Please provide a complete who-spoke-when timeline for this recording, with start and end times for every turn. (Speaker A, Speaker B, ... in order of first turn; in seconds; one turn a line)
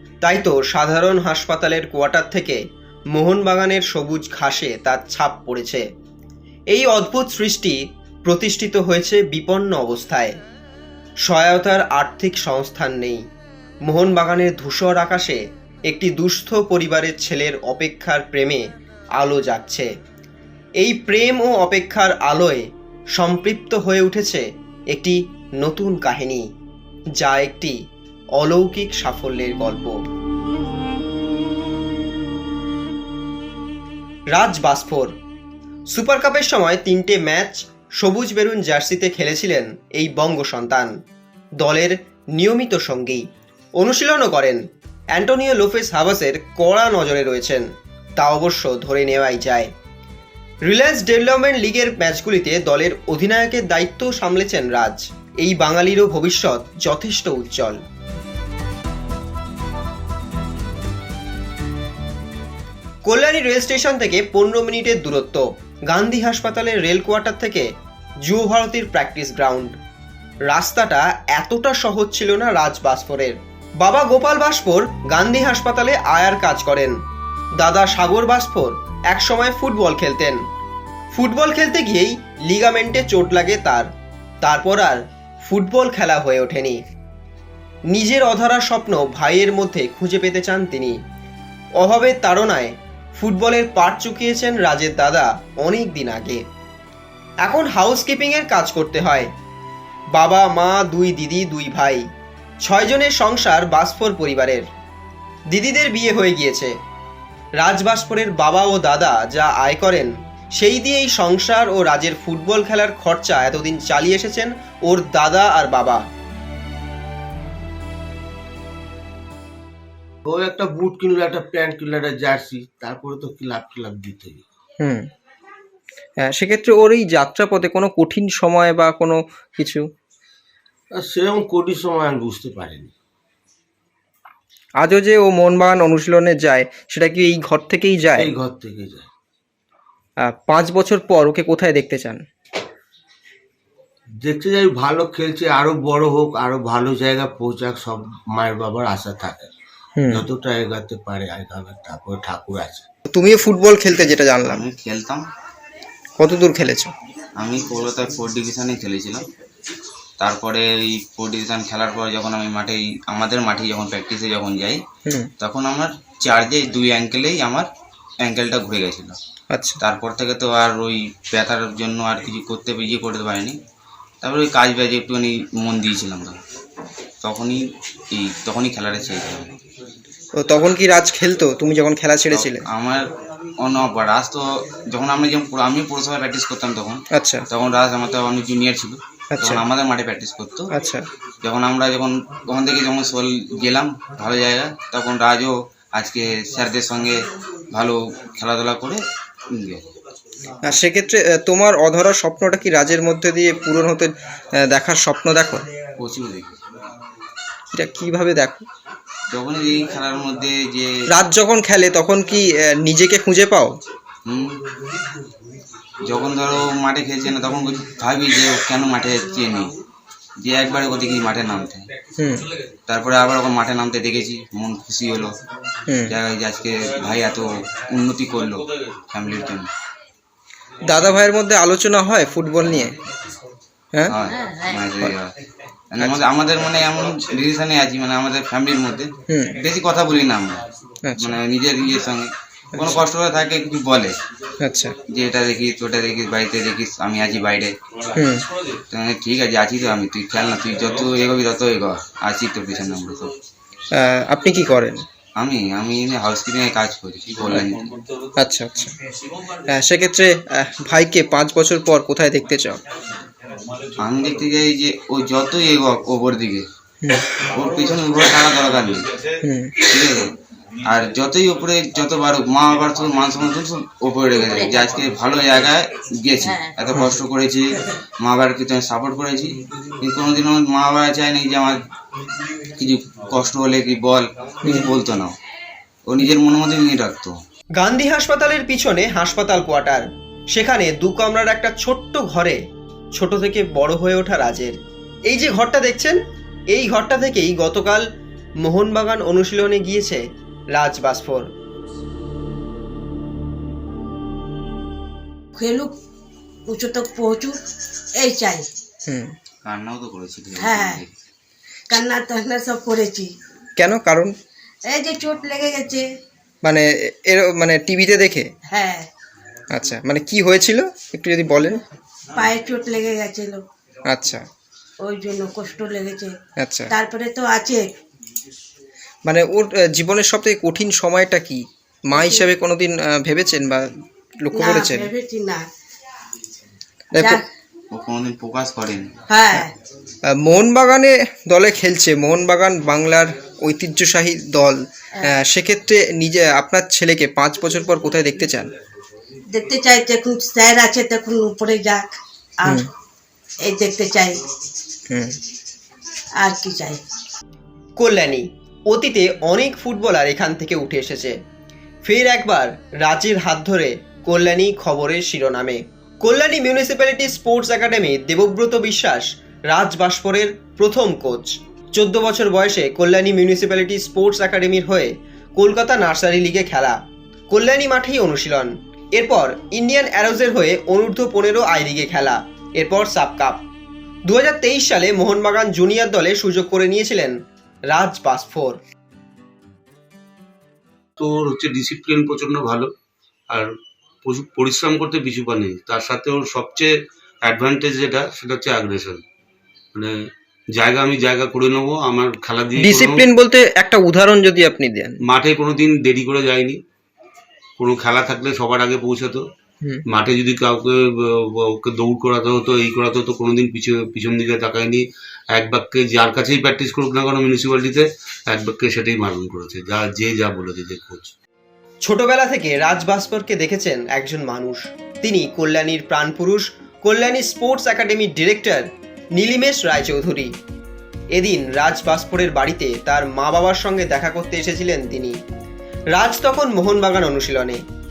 Speaker A: 0.2-2.6
Speaker A: 3.1-5.8
Speaker A: 6.7-10.4
Speaker A: 11.3-13.2
Speaker A: 13.9-18.6
Speaker A: 19.2-19.9
Speaker A: 20.8-22.6
Speaker A: 23.2-26.5
Speaker A: 27.2-27.8
Speaker A: 28.4-29.9
Speaker A: 34.3-35.1
Speaker A: 35.9-40.9
Speaker A: 41.6-43.2
Speaker A: 43.8-44.6
Speaker A: 45.1-47.7
Speaker A: 48.2-49.7
Speaker A: 50.6-57.8
Speaker A: 63.1-67.7
Speaker A: 68.2-69.7
Speaker A: 70.5-77.0
Speaker A: 77.6-80.4
Speaker A: 81.1-83.9
Speaker A: 84.4-86.8
Speaker A: 87.9-91.0
Speaker A: 91.8-96.4
Speaker A: 97.4-99.3
Speaker A: 100.1-102.0
Speaker A: 102.7-104.7
Speaker A: 105.5-106.7
Speaker A: 107.6-116.0
Speaker B: 120.3-124.4
Speaker C: 126.2-129.8
Speaker B: 130.9-132.9
Speaker C: 134.8-138.3
Speaker B: 138.2-139.1
Speaker C: 140.2-142.2
Speaker B: 144.2-149.5
Speaker C: 150.0-150.2
Speaker B: 150.1-152.8
Speaker C: 153.1-154.6
Speaker D: 154.5-155.2
Speaker C: 156.2-156.9
Speaker D: 157.4-159.2
Speaker D: 160.2-164.8
Speaker D: 165.4-167.7
Speaker D: 168.2-169.2
Speaker C: 169.5-169.8
Speaker D: 169.8-173.6
Speaker D: 174.2-176.4
Speaker D: 177.2-177.6
Speaker D: 178.1-179.5
Speaker C: 180.3-182.6
Speaker D: 182.3-183.0
Speaker D: 183.6-190.7
Speaker C: 187.1-187.5
Speaker C: 189.3-189.6
Speaker C: 190.7-191.1
Speaker D: 191.4-199.0
Speaker D: 199.5-199.8
Speaker C: 200.6-205.7
Speaker D: 206.0-206.6
Speaker C: 207.7-208.7
Speaker D: 209.3-210.9
Speaker C: 211.1-213.8
Speaker D: 214.2-214.6
Speaker D: 216.0-219.7
Speaker D: 220.4-221.9
Speaker C: 222.2-222.5
Speaker D: 222.9-225.3
Speaker C: 225.9-226.2
Speaker D: 226.1-229.7
Speaker C: 230.9-233.0
Speaker D: 234.1-235.3
Speaker D: 235.9-240.6
Speaker C: 239.3-239.6
Speaker C: 241.0-241.4
Speaker D: 241.2-244.1
Speaker C: 242.7-243.0
Speaker C: 244.6-244.9
Speaker D: 245.1-247.7
Speaker C: 248.2-248.5
Speaker D: 248.9-253.3
Speaker C: 253.9-255.1
Speaker D: 255.4-258.0
Speaker C: 258.4-258.9
Speaker C: 259.7-262.8
Speaker D: 264.0-266.6
Speaker D: 267.4-269.1
Speaker C: 269.4-269.7
Speaker D: 269.8-270.2
Speaker D: 270.9-277.6
Speaker D: 278.2-281.8
Speaker D: 282.8-285.4
Speaker D: 286.1-287.4
Speaker A: 287.8-292.6
Speaker A: 293.2-294.8
Speaker A: 295.3-296.2
Speaker A: 296.7-298.0
Speaker A: 298.6-300.2
Speaker A: 300.7-301.5
Speaker E: 305.6-306.0
Speaker E: 306.7-307.6
Speaker E: 308.2-308.7
Speaker C: 309.1-309.3
Speaker D: 309.6-311.1
Speaker E: 310.6-311.0
Speaker E: 311.9-313.3
Speaker C: 313.8-314.3
Speaker E: 314.9-316.1
Speaker C: 316.6-318.5
Speaker E: 318.7-319.1
Speaker C: 319.7-321.8
Speaker E: 322.4-323.6
Speaker C: 324.1-324.4
Speaker E: 325.0-326.4
Speaker C: 326.6-326.9
Speaker E: 326.9-327.9
Speaker C: 329.2-333.9
Speaker E: 332.1-332.5
Speaker C: 334.4-335.1
Speaker E: 334.5-335.7
Speaker C: 337.1-337.4
Speaker E: 337.2-337.4
Speaker D: 337.9-339.1
Speaker E: 339.3-339.7
Speaker C: 340.3-348.7
Speaker E: 349.5-352.9
Speaker E: 353.6-354.4
Speaker C: 355.1-355.4
Speaker E: 356.4-357.0
Speaker A: 358.0-361.4
Speaker A: 362.0-377.0
Speaker A: 377.5-383.6
Speaker A: 384.3-387.4
Speaker A: 387.9-388.8
Speaker F: 391.2-392.9
Speaker F: 394.2-396.9
Speaker F: 397.4-399.2
Speaker F: 400.8-403.2
Speaker C: 402.8-405.1
Speaker F: 405.3-406.8
Speaker F: 407.8-409.4
Speaker F: 410.1-421.3
Speaker A: 422.0-430.5
Speaker A: 431.3-435.4
Speaker A: 436.1-437.8